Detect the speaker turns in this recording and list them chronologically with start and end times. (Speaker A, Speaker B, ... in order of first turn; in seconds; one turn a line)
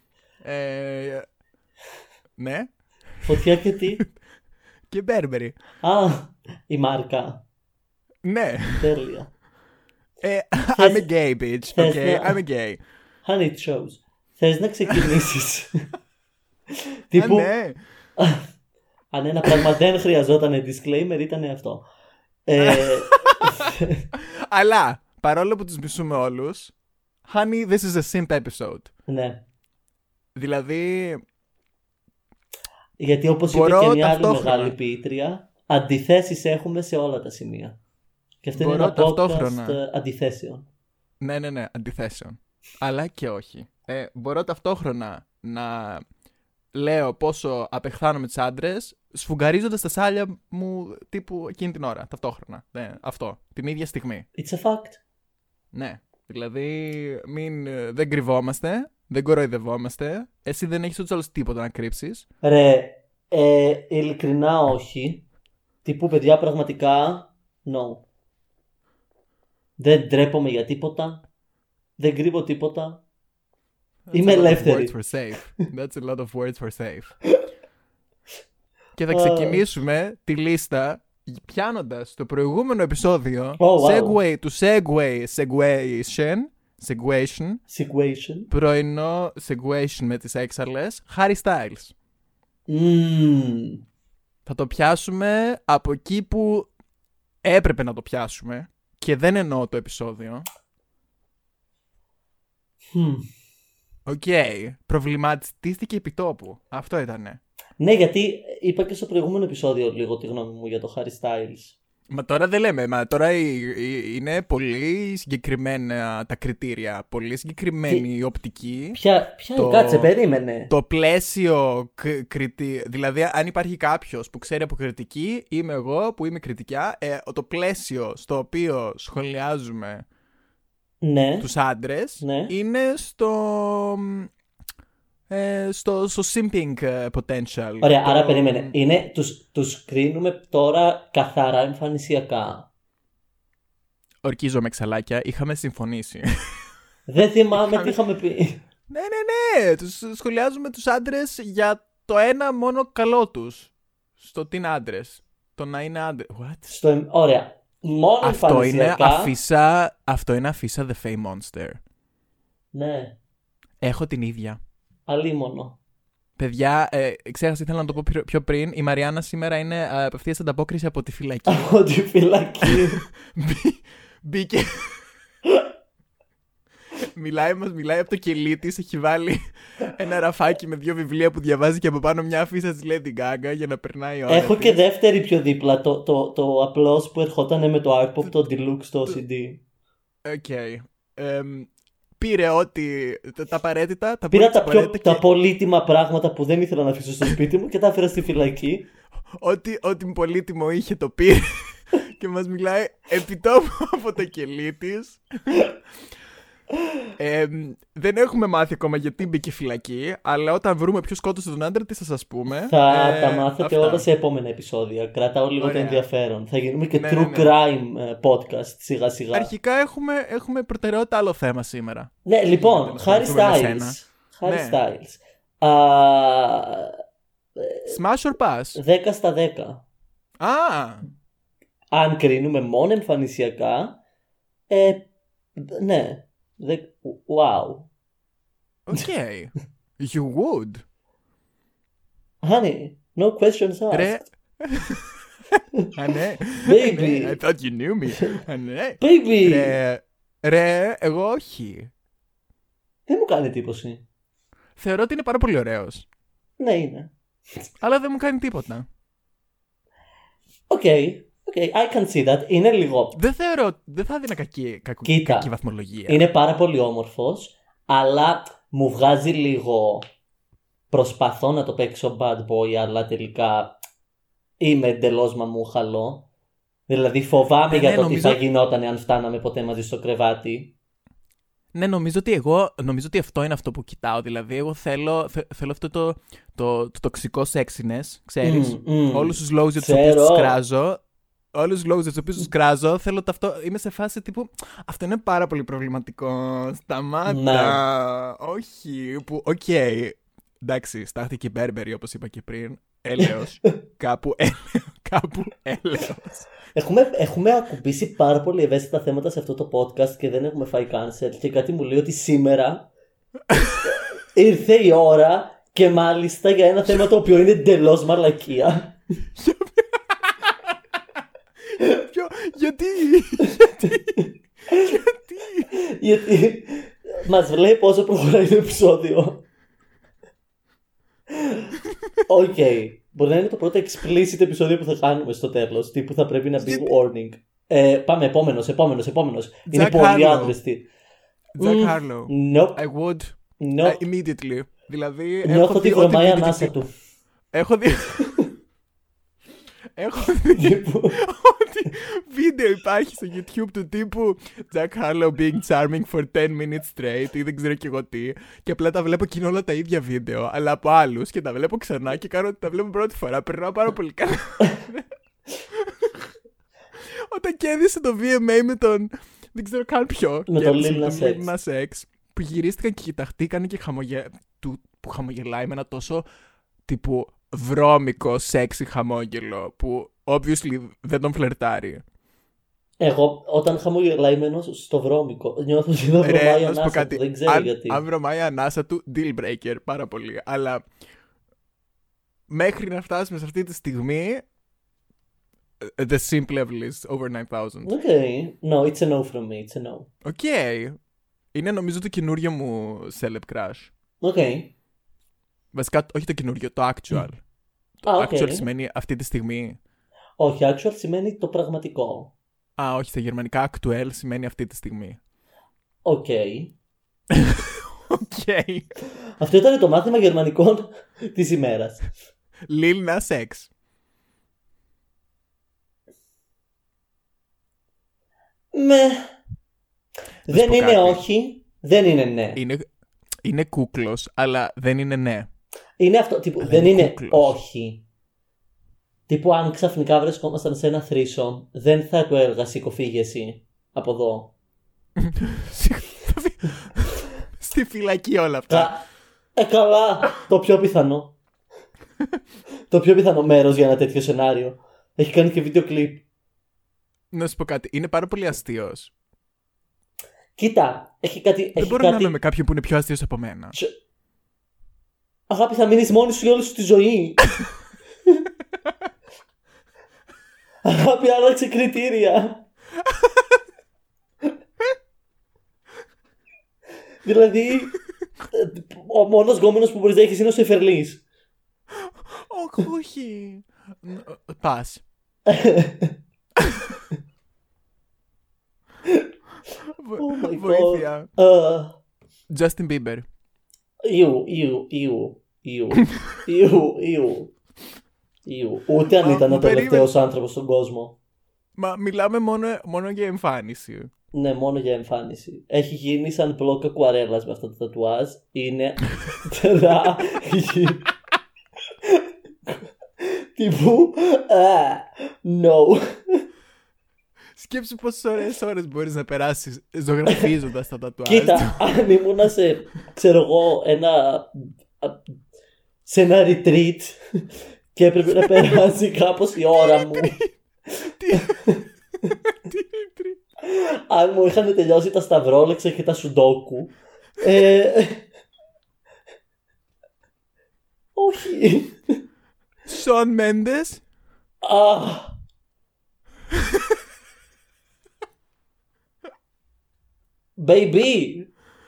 Speaker A: 0.4-1.2
Speaker A: 2.4-2.7
Speaker B: 3.2-4.0
Speaker A: 4.9-5.5
Speaker B: 5.8-7.4
Speaker A: 8.2-8.9
Speaker B: 8.8-9.3
Speaker A: 10.2-12.8
Speaker B: 10.8-11.1
Speaker B: 11.7-12.4
Speaker B: 13.2-15.9
Speaker B: 17.1-17.5
Speaker A: 17.1-17.8
Speaker B: 18.2-18.5
Speaker B: 19.1-21.8
Speaker B: 22.4-24.0
Speaker A: 22.6-26.7
Speaker A: 27.2-28.9
Speaker B: 29.1-29.4
Speaker A: 30.3-31.2
Speaker B: 33.0-37.8
Speaker A: 33.5-34.8
Speaker B: 38.4-40.6
Speaker A: 38.5-39.8
Speaker A: 41.2-46.0
Speaker A: 46.7-54.2
Speaker B: 54.4-55.0
Speaker A: 55.7-62.2
Speaker B: 62.4-65.2
Speaker B: 65.8-68.0
Speaker B: 69.8-71.2
Speaker B: 72.0-73.0
Speaker A: 74.1-77.1
Speaker B: 74.1-75.0
Speaker A: 79.0-87.6
Speaker B: 79.1-79.6
Speaker B: 83.6-84.2
Speaker B: 87.7-88.5
Speaker A: 88.5-91.9
Speaker B: 92.7-93.8
Speaker A: 94.5-96.7
Speaker A: 97.4-100.5
Speaker B: 102.9-103.3
Speaker A: 104.0-107.4
Speaker B: 107.8-111.8
Speaker A: 112.1-119.0
Speaker B: 118.9-120.7
Speaker A: 119.5-120.1
Speaker A: 120.7-130.0
Speaker B: 131.0-131.5
Speaker A: 131.4-134.3
Speaker B: 132.2-132.5
Speaker A: 135.3-138.7
Speaker B: 137.8-142.7
Speaker A: 144.2-146.6
Speaker B: 147.1-148.6
Speaker A: 147.5-148.0
Speaker A: 148.9-156.8
Speaker B: 156.7-159.3
Speaker A: 158.2-161.8
Speaker B: 162.7-163.2
Speaker A: 163.8-164.6
Speaker B: 165.1-165.8
Speaker A: 166.4-171.7
Speaker B: 171.5-173.0
Speaker A: 172.6-175.0
Speaker A: 177.0-184.8
Speaker B: 184.3-189.6
Speaker A: 190.2-195.2
Speaker B: 194.3-198.9
Speaker A: 199.4-205.7
Speaker A: 207.2-214.1
Speaker B: 212.7-219.5
Speaker A: 215.6-216.1
Speaker A: 216.9-217.5
Speaker A: 219.3-224.8
Speaker B: 222.2-226.9
Speaker B: 227.6-228.0
Speaker A: 227.9-228.8
Speaker B: 228.8-229.8
Speaker A: 230.4-231.0
Speaker B: 231.9-234.0
Speaker B: 234.7-237.9
Speaker A: 238.9-240.8
Speaker B: 242.4-244.2
Speaker A: 243.9-245.2
Speaker A: 245.9-251.9
Speaker B: 246.6-247.4
Speaker B: 249.0-249.8
Speaker B: 253.1-254.0
Speaker A: 254.8-256.1
Speaker B: 256.6-257.1
Speaker A: 257.8-258.9
Speaker B: 260.7-263.2
Speaker A: 263.1-266.2
Speaker B: 265.0-265.5
Speaker B: 266.1-270.1
Speaker B: 270.9-273.8
Speaker B: 274.6-276.2
Speaker B: 276.9-280.7
Speaker A: 277.7-278.4
Speaker A: 281.7-291.0
Speaker B: 288.4-290.6
Speaker A: 291.5-306.5
Speaker B: 297.3-297.8
Speaker B: 306.7-312.9
Speaker B: 313.9-319.0
Speaker A: 319.4-320.8
Speaker A: 321.8-324.1
Speaker B: 323.8-325.0
Speaker A: 324.9-325.7
Speaker B: 325.7-329.4
Speaker B: 331.4-331.7
Speaker B: 332.3-340.9
Speaker A: 336.6-336.9
Speaker A: 339.7-340.6
Speaker A: 341.6-346.8
Speaker B: 341.6-342.8
Speaker B: 343.6-344.0
Speaker B: 345.4-346.9
Speaker A: 347.5-348.4
Speaker A: 350.0-365.1
Speaker B: 350.6-351.2
Speaker A: 365.7-366.3
Speaker A: 367.0-376.2
Speaker B: 370.5-371.5
Speaker A: 376.9-382.0
Speaker B: 383.0-388.0
Speaker A: 386.2-390.9
Speaker A: 392.5-394.4
Speaker A: 395.8-397.9
Speaker B: 397.8-400.1
Speaker A: 400.2-401.0
Speaker A: 401.5-403.9
Speaker B: 404.2-404.7
Speaker A: 405.7-407.4
Speaker B: 408.1-408.7
Speaker A: 408.1-409.8
Speaker B: 410.4-412.3
Speaker A: 412.8-415.2
Speaker B: 416.0-416.7
Speaker A: 417.3-418.9
Speaker B: 419.4-422.1
Speaker A: 422.7-423.7
Speaker B: 428.7-429.4
Speaker B: 430.5-432.6
Speaker A: 430.5-431.2
Speaker A: 432.6-432.9
Speaker A: 433.4-435.5
Speaker B: 436.0-438.0
Speaker A: 436.6-437.6
Speaker B: 439.3-444.5
Speaker A: 445.2-449.0
Speaker B: 448.7-449.0
Speaker B: 449.6-451.4
Speaker B: 452.9-456.2
Speaker A: 457.3-459.1
Speaker B: 460.6-462.4
Speaker A: 461.8-463.8
Speaker B: 465.5-467.5
Speaker B: 470.9-472.6
Speaker A: 473.1-473.4
Speaker B: 477.2-478.0
Speaker B: 478.5-481.2
Speaker A: 482.0-485.0
Speaker B: 485.5-486.1
Speaker A: 486.6-486.9
Speaker A: 489.9-491.3
Speaker B: 490.2-492.0
Speaker A: 492.5-493.2
Speaker B: 494.0-497.5
Speaker B: 498.4-501.1
Speaker A: 499.1-500.1
Speaker A: 501.8-504.1
Speaker B: 504.3-511.1
Speaker B: 512.1-516.5
Speaker A: 517.5-521.8
Speaker B: 521.2-525.3
Speaker B: 526.0-527.2
Speaker B: 527.9-530.4
Speaker A: 528.3-528.8
Speaker A: 529.8-530.5
Speaker A: 531.1-531.6
Speaker B: 531.3-531.8
Speaker A: 532.4-533.4
Speaker B: 533.6-538.2
Speaker B: 541.1-542.2
Speaker A: 542.9-544.0
Speaker B: 544.6-545.4
Speaker B: 550.6-551.5